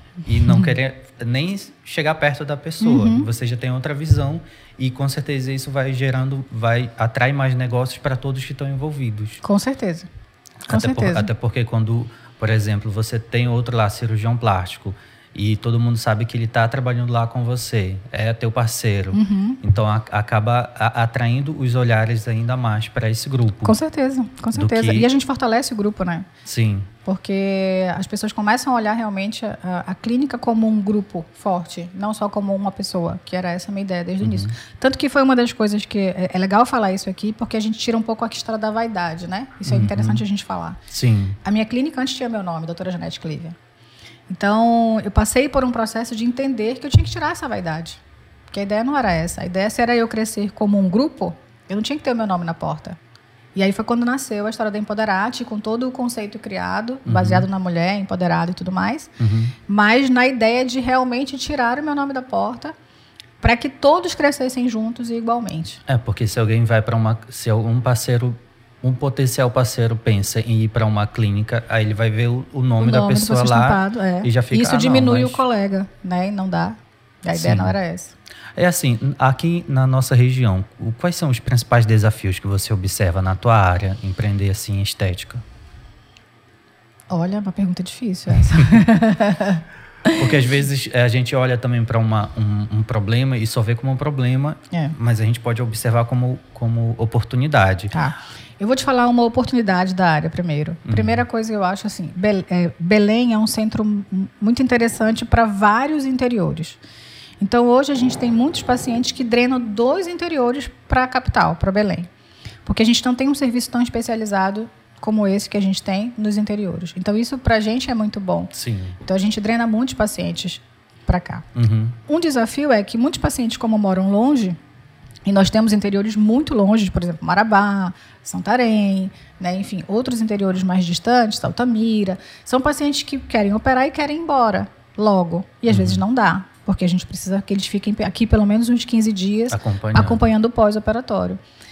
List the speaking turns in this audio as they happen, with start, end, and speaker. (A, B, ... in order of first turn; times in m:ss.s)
0:00.2-0:09.4 A
0:00.4-0:00.7 B
0:02.8-0:03.3 B
0:09.4-0:10.1 B
0:10.7-0:11.3 B
0:10.7-0:23.8 A
0:19.1-0:19.6 B
0:23.6-0:26.3 B
0:24.5-0:25.1 A
0:26.4-0:26.9 A
0:27.0-0:40.8 B
0:34.2-0:34.5 A
0:39.6-0:40.2 A
0:40.9-0:41.4 A
0:41.4-0:43.5 B
0:44.3-0:53.0 B
0:53.5-0:59.1 B
0:57.0-0:57.4 A
0:59.2-0:59.6 A
0:59.7-1:02.7 B
1:03.4-1:05.8 B
1:05.9-1:15.4 A
1:12.8-1:18.1 B
1:17.3-1:17.7 A
1:18.6-1:25.4 A
1:27.1-1:30.2 B
1:30.1-1:37.9 A
1:37.9-1:46.8 B
1:40.8-1:41.2 A
1:47.4-1:52.1 B
1:52.6-2:01.4 B
1:58.5-1:59.0 A
2:01.5-2:02.0 A
2:02.1-2:04.6 B
2:05.2-2:21.4 B
2:15.7-2:16.0 A
2:19.5-2:20.2 A